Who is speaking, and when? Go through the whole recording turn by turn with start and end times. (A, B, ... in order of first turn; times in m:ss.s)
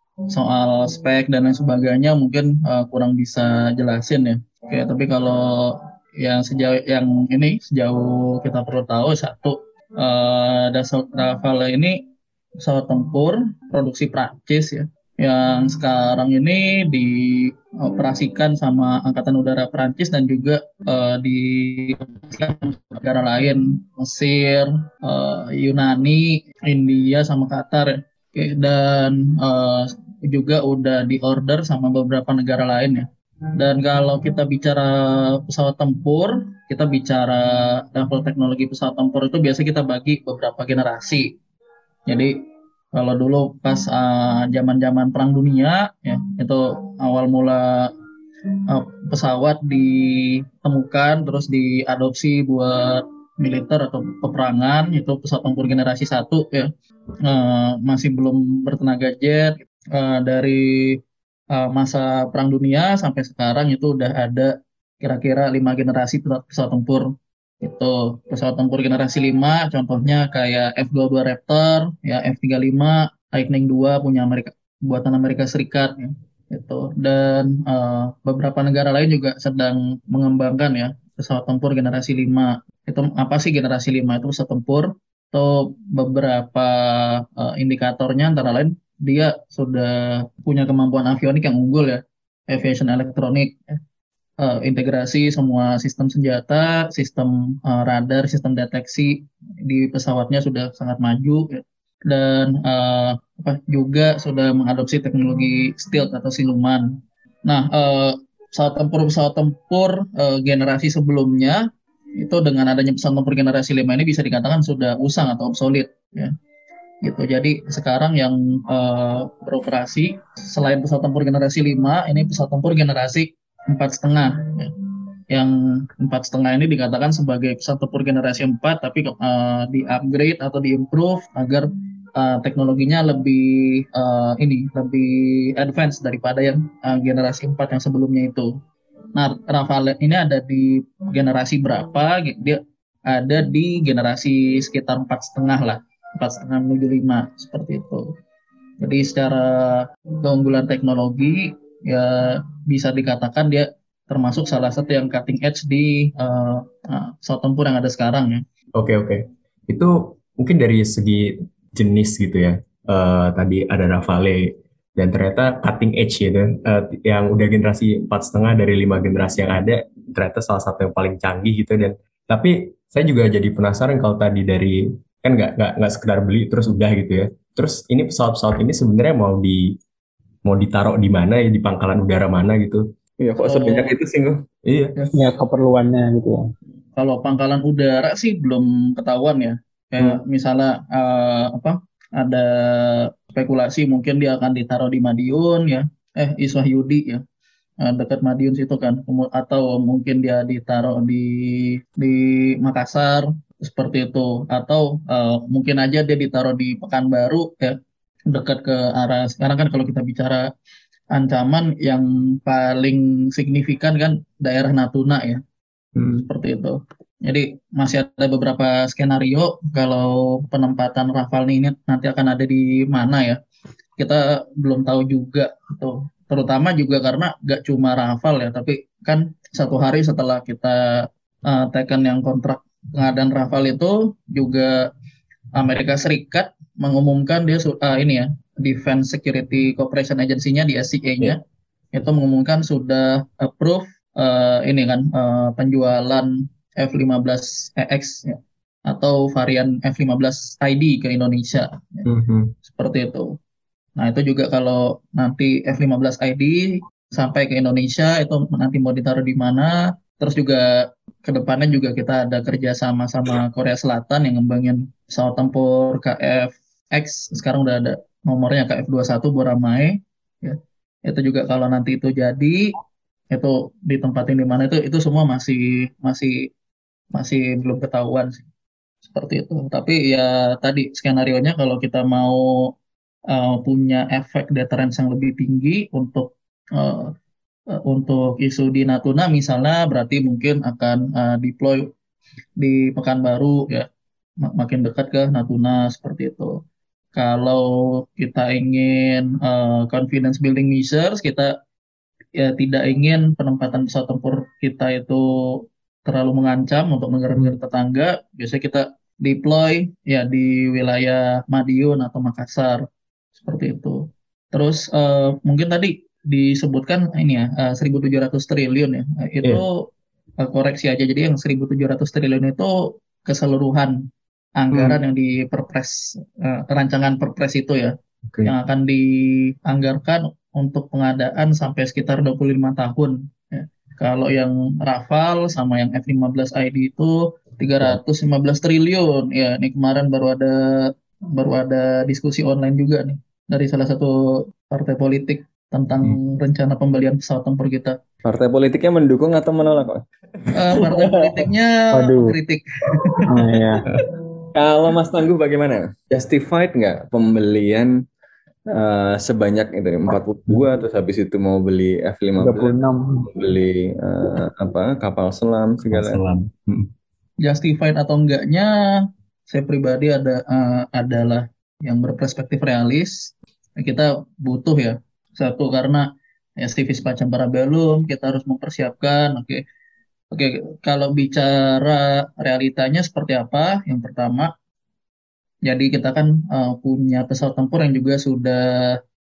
0:00.3-0:12.0 A
0:12.6-0:41.3 A
0:42.1-0:42.4 A
0:42.9-0:47.9 A
0:48.7-0:56.7 A
0:57.2-1:01.0 A
1:01.5-1:07.1 A
1:07.6-1:33.8 A
1:34.4-1:46.9 A
1:47.5-1:51.7 A
1:52.2-1:56.3 A
1:57.0-2:04.7 A
2:05.3-2:18.5 A
2:19.2-2:28.1 A
2:28.8-2:38.4 A
2:38.8-2:59.8 B
3:00.4-3:02.8 B
3:03.2-3:04.4 C
3:03.4-3:03.9 A
3:04.6-3:05.0 B
3:05.2-3:06.4 D
3:07.0-3:17.2 A
3:17.8-3:27.8 A
3:28.3-3:30.5 A
3:31.1-3:35.4 A
3:36.0-3:36.3 B
3:36.3-3:43.4 A
3:44.0-3:54.9 A
3:55.6-4:01.4 A
4:01.9-4:12.0 A
4:12.1-4:12.5 B
4:12.7-4:13.3 A
4:14.0-4:20.6 A
4:21.2-4:32.7 A
4:33.3-4:36.5 A
4:37.1-4:38.4 A
4:39.1-4:42.7 A
4:43.3-4:47.1 A
4:47.7-4:51.9 A
4:52.6-4:53.9 A
4:54.4-4:56.6 A
4:57.2-5:01.5 A
5:02.4-5:12.8 A
5:13.4-5:19.9 A
5:20.4-5:24.0 A
5:24.6-5:27.9 A
5:24.7-5:25.0 B
5:28.4-5:48.0 A
5:48.2-5:50.0 C
5:50.6-5:53.4 A
5:50.7-5:51.1 C
5:52.0-5:52.3 D
5:53.3-5:53.8 D
5:54.5-5:58.0 C
5:58.7-6:02.7 C
6:02.4-6:03.3 D
6:03.3-6:06.2 C
6:05.9-6:06.9 B
6:07.4-6:09.0 A
6:09.5-6:16.1 A
6:16.6-6:19.6 A
6:20.3-6:24.5 A
6:25.6-6:29.0 A